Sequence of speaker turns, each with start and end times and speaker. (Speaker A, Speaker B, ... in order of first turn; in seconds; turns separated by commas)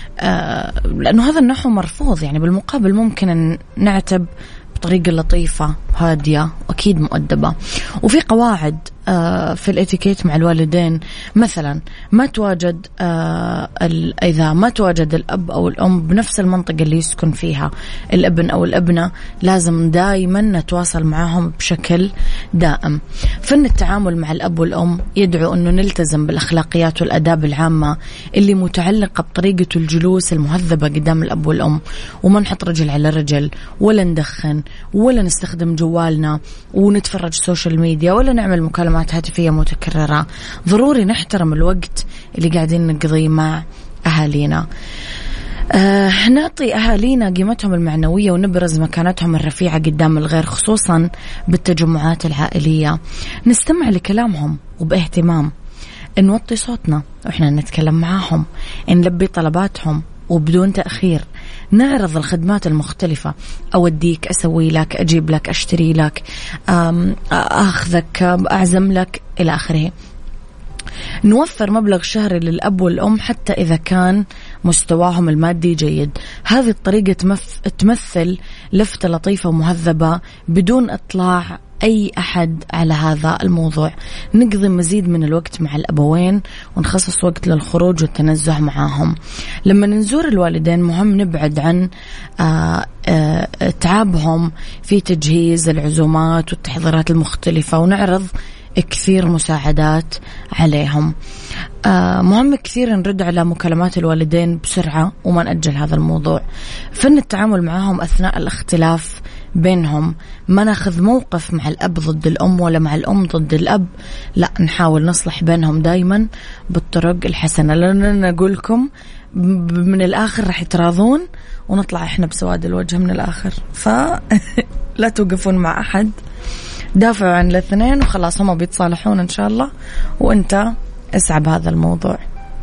Speaker A: 0.2-44.6, Speaker A: 45.7-55.5, Speaker A: 56.2-69.9, Speaker A: 71.2-91.9, Speaker A: 92.4-101.1, Speaker A: 101.8-126.2, Speaker A: 127.0-132.2